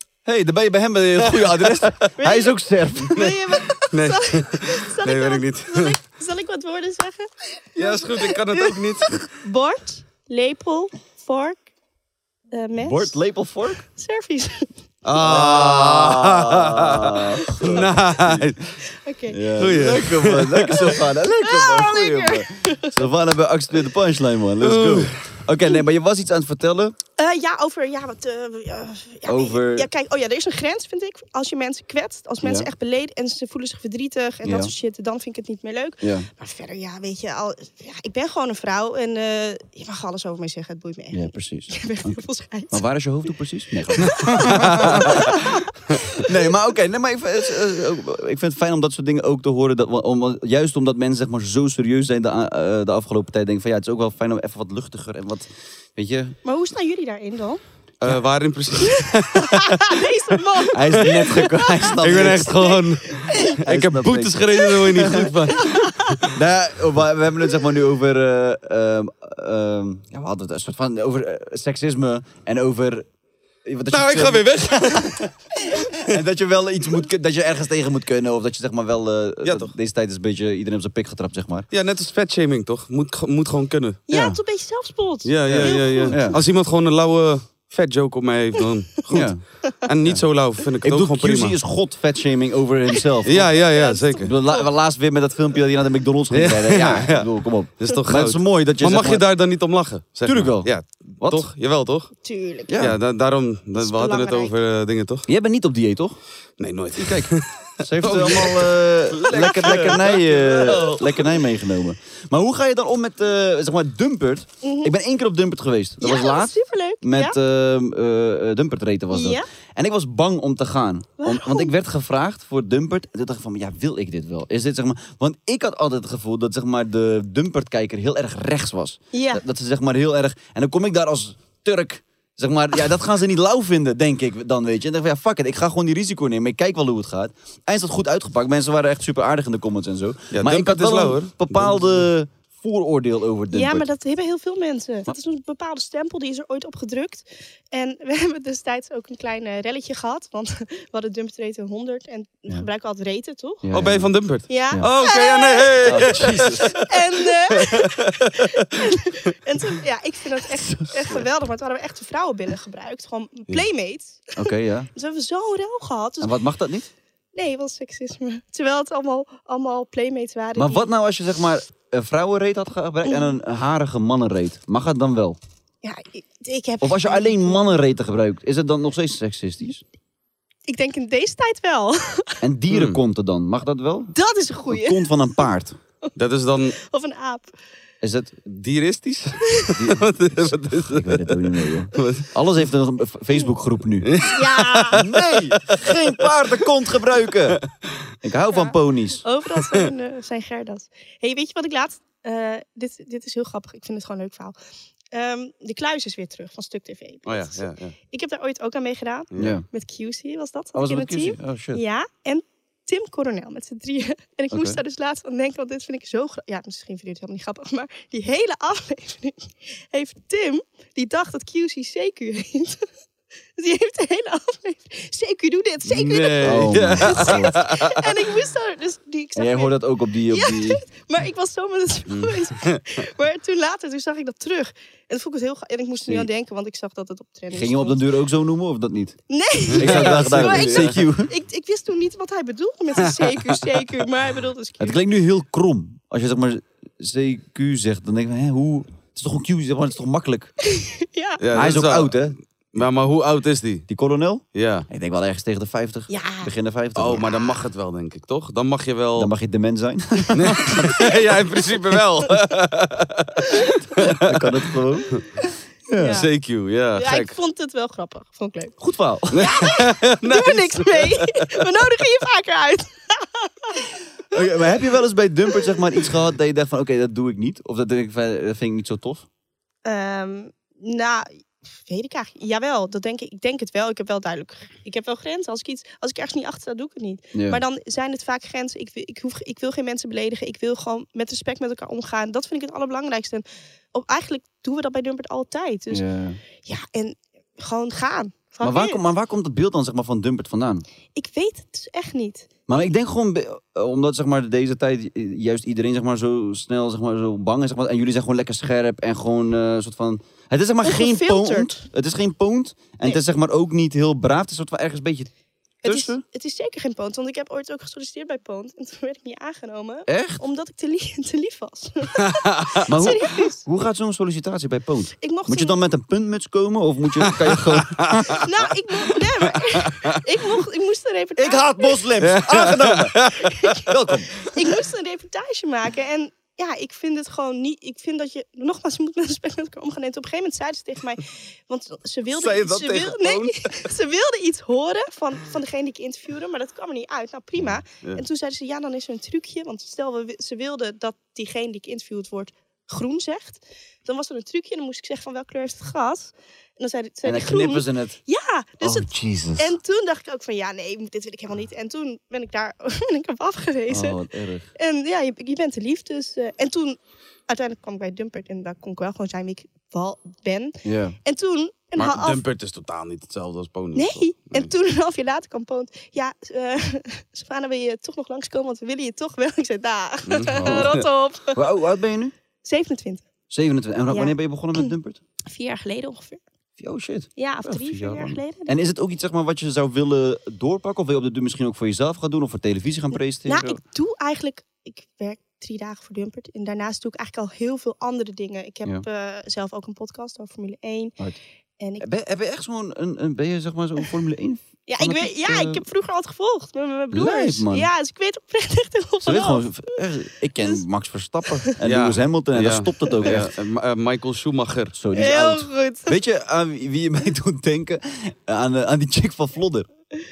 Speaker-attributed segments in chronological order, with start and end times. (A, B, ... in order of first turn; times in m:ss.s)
0:00.2-0:03.4 A
0:01.3-0:01.8 B
0:02.2-0:08.4 C
0:03.9-0:06.0 B
0:07.8-0:09.3 B
0:09.1-0:11.7 C
0:12.5-0:13.1 C
0:12.8-0:13.8 A
0:14.0-0:14.7 C
0:15.0-0:18.8 B
0:15.2-0:18.5 A
0:17.6-0:17.9 C
0:19.0-0:19.4 C
0:19.3-0:27.0 A
0:19.6-0:21.0 B
0:21.4-0:23.0 C
0:24.6-0:25.2 B
0:27.2-0:42.8 C
0:29.3-0:29.9 A
0:32.4-0:32.7 A
0:34.4-0:34.7 A
0:36.0-0:36.3 A
0:41.1-0:45.5 A
0:43.9-0:46.2 C
0:44.5-0:45.0 B
0:46.2-0:56.4 A
0:56.4-0:57.6 C
0:58.0-1:00.0 B
0:58.8-1:01.7 C
1:00.7-1:02.8 A
1:01.0-1:01.3 B
1:02.0-1:05.9 B
1:03.6-1:05.5 A
1:05.6-1:06.2 C
1:06.3-1:13.1 A
1:13.6-1:21.7 A
1:13.9-1:15.2 B
1:19.4-1:19.7 B
1:21.7-1:24.0 B
1:24.1-1:26.4 C
1:24.1-1:24.4 A
1:25.2-1:31.6 B
1:25.5-1:26.4 A
1:29.1-1:29.4 A
1:30.8-1:33.6 A
1:33.2-1:34.3 B
1:33.5-1:34.7 C
1:34.2-1:39.3 A
1:36.3-1:42.1 B
1:40.2-1:41.4 A
1:42.2-1:42.8 C
1:42.7-1:43.0 A
1:42.8-1:45.3 B
1:43.8-1:44.5 C
1:45.3-1:46.2 A
1:46.6-1:51.3 B
1:47.0-2:23.9 A
1:49.3-1:50.0 C
1:50.6-1:50.9 C
1:54.6-1:54.9 C
1:56.0-1:57.4 C
1:59.1-1:59.5 C
2:01.2-2:01.7 C
2:09.1-2:09.4 C
2:20.3-2:22.1 B
2:23.5-2:33.7 C
2:33.6-2:34.9 A
2:33.7-2:38.6 B
2:34.5-2:46.3 C
2:35.8-2:36.8 A
2:40.6-2:41.2 A
2:44.4-2:44.9 A
2:46.2-2:46.9 A
2:47.3-2:50.9 C
2:50.6-2:55.4 A
2:53.1-2:53.4 C
2:55.8-2:57.6 C
2:56.8-2:59.8 A
3:00.7-3:02.4 C
3:02.4-3:04.2 A
3:02.7-3:03.0 B
3:04.2-3:05.1 C
3:04.7-3:05.8 A
3:06.2-3:06.8 B
3:06.8-3:07.5 C
3:08.0-3:08.4 A
3:08.5-3:12.3 B
3:09.8-3:14.1 A
3:14.0-3:15.0 B
3:14.2-3:15.0 C
3:14.9-3:17.6 A
3:18.2-3:19.2 A
3:18.5-3:24.6 C
3:25.1-3:42.8 C
3:27.3-3:27.9 B
3:29.4-3:29.7 A
3:30.8-3:31.8 A
3:34.5-3:34.8 A
3:43.6-3:58.0 C
3:45.9-3:48.0 B
3:46.4-3:47.6 A
3:49.4-3:50.8 A
3:52.1-3:52.8 B
3:57.5-3:59.2 A
3:59.3-4:05.0 C
3:59.7-4:01.0 B
3:59.7-4:01.3 A
4:03.2-4:03.6 B
4:04.8-4:10.5 A
4:10.7-4:11.4 C
4:11.4-4:13.9 B
4:11.5-4:12.4 A
4:13.9-4:17.3 A
4:14.6-4:14.9 B
4:16.1-4:16.5 C
4:17.0-4:19.3 B
4:19.2-4:21.1 A
4:20.3-4:24.6 B
4:24.0-4:25.2 A
4:25.9-4:26.3 A
4:26.0-4:26.3 C
4:26.0-4:27.4 B
4:27.0-4:28.8 C
4:28.8-4:29.6 A
4:29.3-4:31.7 B
4:29.4-4:33.8 C
4:34.3-4:39.3 A
4:39.8-4:56.0 C
4:47.3-4:47.6 A
4:55.9-4:56.4 A
4:56.6-4:59.0 C
4:58.6-5:00.8 A
5:01.2-5:02.5 C
5:02.7-5:15.3 A
5:10.8-5:11.8 C
5:15.8-5:16.2 A
5:15.8-5:23.6 C
5:20.1-5:20.4 A
5:22.3-5:22.8 B
5:22.9-5:28.4 A
5:25.2-5:25.8 C
5:27.4-5:28.2 B
5:28.4-5:32.0 C
5:31.4-5:34.5 A
5:32.2-5:33.5 B
5:33.5-5:33.8 C
5:34.4-6:04.2 C
5:42.3-5:43.9 B
5:57.2-5:58.2 A
5:58.8-5:59.8 A
6:03.9-6:04.7 A
6:04.8-6:12.4 C
6:10.8-6:11.2 A
6:12.0-6:14.7 B
6:14.0-6:21.6 C
6:20.3-6:21.0 B
6:20.6-6:20.9 A
6:21.6-6:22.3 A
6:22.6-6:23.2 C
6:23.5-6:25.2 A
6:24.1-6:24.9 C
6:25.5-6:26.4 C
6:26.8-6:33.8 A
6:27.4-6:28.7 C
6:33.5-6:41.2 C
6:41.8-6:42.1 C
6:42.0-6:45.8 A
6:44.9-6:49.7 C
6:47.1-6:47.9 A
6:49.2-6:53.5 A
6:51.8-6:54.9 B
6:54.9-6:59.9 A
6:55.1-6:56.2 C